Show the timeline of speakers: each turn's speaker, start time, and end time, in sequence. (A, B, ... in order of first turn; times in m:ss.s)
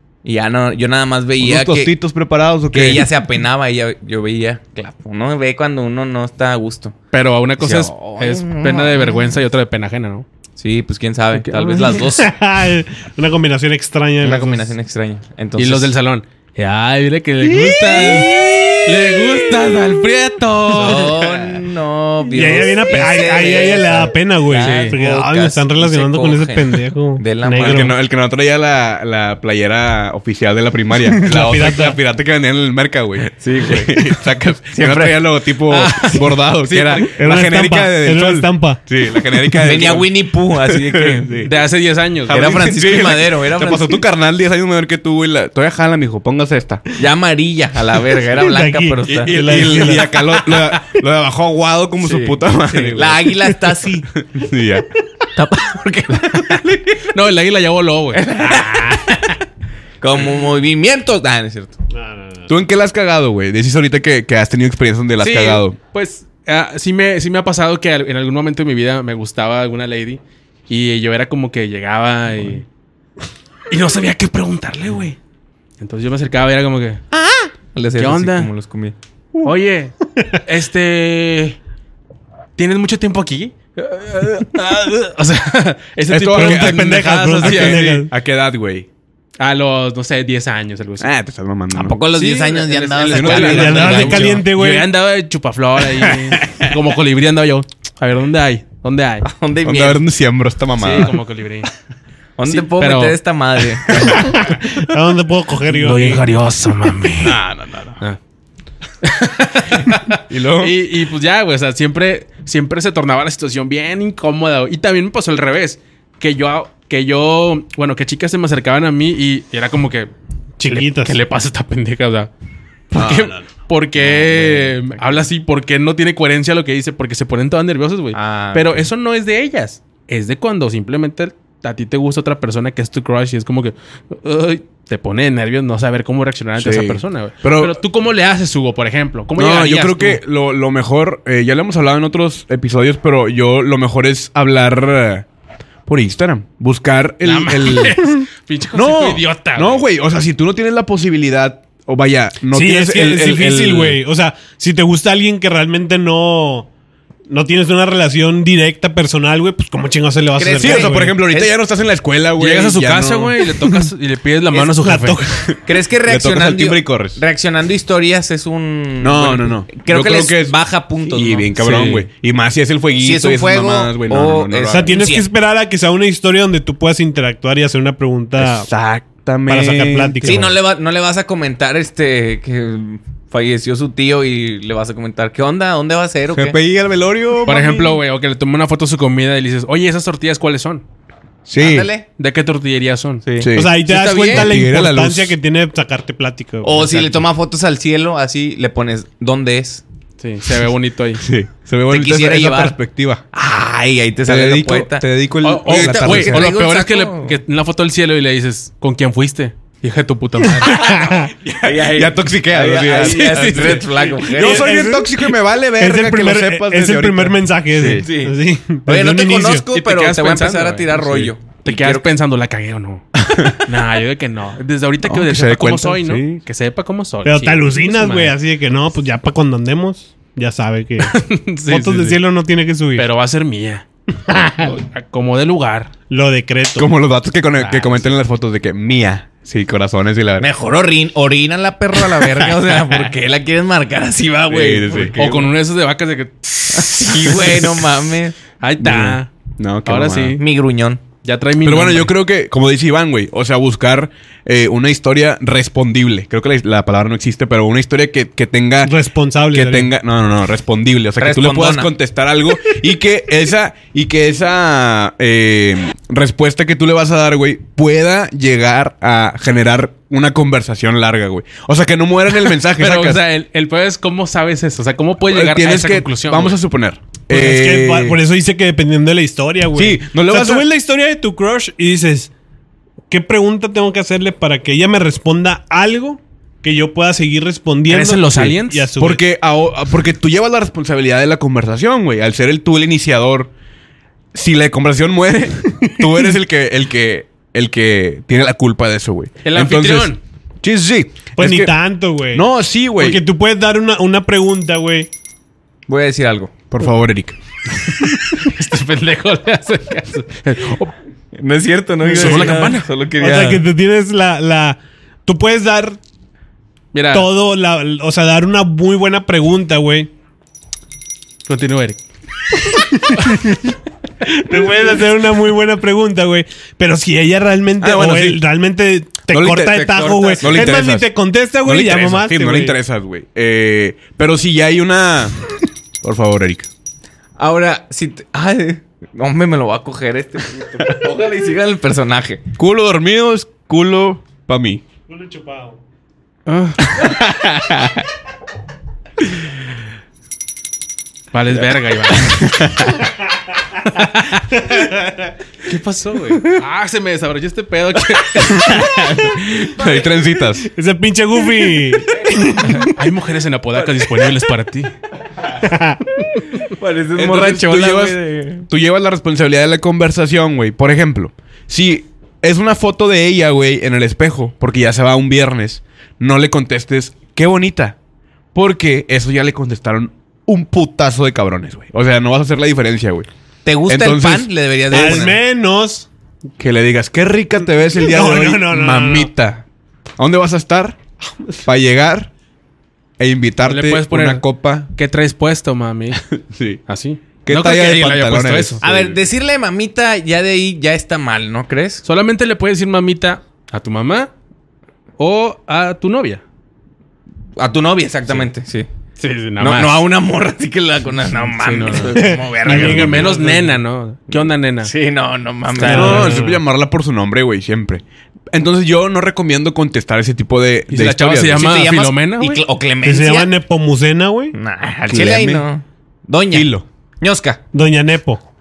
0:00.2-0:01.9 A
0:01.4-0:03.1 B
0:02.7-0:07.0 A
0:07.1-0:10.3 C
0:07.6-0:09.2 A
0:10.6-0:12.3 A
0:11.3-0:12.0 C
0:12.0-0:14.7 D
0:14.2-0:15.9 A
0:15.6-0:21.6 C
0:17.9-0:18.3 D
0:18.0-0:18.8 A
0:20.7-0:27.9 A
0:22.3-0:27.9 D
0:24.5-0:25.0 C
0:27.6-0:41.5 B
0:31.1-0:32.0 D
0:33.4-0:35.2 A
0:35.7-0:37.2 C
0:37.1-0:38.8 D
0:39.6-0:41.5 A
0:41.4-0:42.5 C
0:42.3-0:44.0 A
0:42.3-0:46.8 B
0:47.0-0:49.9 A
0:48.4-0:50.4 D
0:49.1-0:53.6 B
0:52.0-0:54.1 A
0:54.2-0:54.9 B
0:55.4-0:56.7 A
0:56.5-0:58.2 C
0:58.1-0:59.4 A
0:58.5-0:58.8 D
1:00.0-1:01.8 A
1:01.9-1:02.5 D
1:02.5-1:05.8 B
1:05.2-1:12.6 C
1:13.7-1:15.2 C
1:15.8-1:17.0 C
1:17.1-1:19.0 A
1:18.0-1:18.5 C
1:19.4-1:21.6 C
1:22.6-1:27.8 C
1:26.1-1:28.9 B
1:26.3-1:28.1 D
1:29.4-1:31.1 C
1:31.0-1:32.0 B
1:31.7-1:34.3 A
1:32.2-1:39.2 C
1:33.1-1:34.2 B
1:33.4-1:34.9 D
1:36.1-1:36.7 B
1:39.2-1:40.0 A
1:39.6-1:41.2 B
1:40.8-1:41.7 C
1:42.4-1:44.2 A
1:42.5-1:43.2 C
1:44.2-1:46.2 D
1:45.6-1:47.4 C
1:47.2-1:48.0 B
1:49.0-2:00.1 C
1:50.3-1:50.8 B
2:00.6-2:01.2 D
2:00.7-2:02.3 C
2:02.9-2:20.2 C
2:02.9-2:03.5 B
2:04.0-2:04.6 B
2:08.1-2:08.8 A
2:16.6-2:17.8 B
2:19.4-2:25.3 B
2:25.9-2:28.0 B
2:27.2-2:29.8 C
2:28.7-2:34.0 B
2:32.5-2:36.7 D
2:37.3-2:41.1 D
2:40.4-2:41.5 A
2:40.6-2:43.5 B
2:42.4-2:45.3 C
2:44.5-2:45.5 D
2:45.7-2:51.5 A
2:46.1-2:47.2 B
2:49.0-2:50.5 B
2:51.1-2:54.9 B
2:51.6-2:52.1 C
2:53.0-2:55.3 A
2:54.7-2:58.7 D
2:58.4-3:00.4 B
2:59.5-3:00.6 D
3:00.2-3:06.6 A
3:06.3-3:08.0 B
3:07.4-3:10.8 C
3:11.5-3:11.9 B
3:11.6-3:12.1 A
3:12.2-3:13.2 C
3:13.2-3:14.5 A
3:13.4-3:15.4 B
3:13.5-3:17.2 D
3:16.6-3:19.8 A
3:20.2-3:21.2 C
3:21.2-3:23.2 B
3:21.9-3:22.8 A
3:23.3-3:27.4 A
3:24.3-3:26.5 B
3:25.4-3:30.8 C
3:30.5-3:31.3 D
3:30.8-3:38.0 B
3:31.6-3:34.8 A
3:33.0-3:33.8 C
3:34.3-3:39.7 D
3:37.7-3:38.4 A
3:38.9-3:42.1 A
3:39.7-3:41.0 C
3:41.0-3:41.3 B
3:41.6-3:48.4 C
3:43.2-3:43.6 B
3:45.0-3:46.4 B
3:47.2-3:51.1 D
3:51.0-3:52.2 C
3:51.7-3:53.0 D
3:53.0-3:53.9 C
3:54.3-3:54.8 D
3:54.6-3:55.9 C
3:56.1-3:56.9 D
3:56.8-4:00.5 B
3:57.6-3:58.0 C
4:00.4-4:05.2 A
4:02.2-4:03.0 B
4:04.5-4:05.5 B
4:05.2-4:07.5 C
4:06.7-4:08.4 A
4:08.6-4:09.3 C
4:08.8-4:10.4 B
4:09.9-4:10.4 C
4:10.4-4:11.0 A
4:11.2-4:12.1 C
4:11.6-4:18.9 B
4:18.8-4:19.9 D
4:19.5-4:33.2 B
4:21.2-4:21.9 A
4:32.8-4:36.6 C
4:35.2-4:38.2 B
4:37.3-4:42.3 D
4:39.7-4:40.7 B
4:43.1-4:49.2 D
4:47.9-4:48.9 C
4:48.4-4:53.5 B
4:54.3-5:01.8 B
4:59.4-5:00.2 C
5:01.4-5:02.4 D
5:02.3-5:03.2 B
5:03.0-5:05.1 D
5:05.9-5:06.5 A
5:06.7-5:08.2 B
5:08.4-5:10.9 C
5:11.4-5:13.6 A
5:12.0-5:12.9 C
5:12.1-5:12.5 D
5:13.2-5:16.0 D
5:16.9-5:17.3 C
5:17.1-5:20.1 D
5:21.5-5:22.0 C
5:22.8-5:32.8 D
5:27.8-5:28.4 B
5:29.3-5:31.1 B
5:29.6-5:30.8 A
5:31.6-5:35.4 B
5:36.0-5:36.7 B
5:37.4-5:42.4 A
5:42.6-5:44.8 B
5:45.1-5:45.8 D
5:46.5-5:46.9 C
5:46.9-5:48.0 B
5:51.3-5:52.4 C
5:52.1-5:53.1 B
5:53.9-5:54.4 C
5:55.6-5:58.9 C
5:58.8-6:00.7 B
6:00.6-6:02.9 D
6:02.7-6:04.9 C
6:05.6-6:06.0 D
6:06.6-6:08.7 A
6:07.2-6:18.0 B
6:18.5-6:23.3 B
6:23.6-6:25.4 A
6:23.9-6:25.3 B
6:24.9-6:26.1 D
6:26.6-6:29.6 B
6:28.0-6:29.3 D
6:30.2-6:31.0 B
6:31.6-6:32.3 B
6:33.2-6:34.9 B
6:33.7-6:36.2 C
6:36.1-6:36.8 B
6:36.9-6:38.8 C
6:37.4-6:39.2 B
6:38.8-6:42.0 A
6:42.0-6:44.3 C
6:45.2-6:46.4 C
6:47.6-6:48.9 A
6:49.2-6:50.0 C
6:49.6-6:53.3 A
6:51.5-6:54.9 C
6:52.1-6:53.8 D
6:54.4-6:56.3 A
6:55.8-6:56.6 D
6:55.8-7:01.7 B
7:00.9-7:02.6 C
7:01.5-7:03.5 A
7:03.0-7:04.6 D
7:04.5-7:07.6 A
7:05.1-7:05.6 B
7:06.5-7:06.8 B
7:07.7-7:08.4 D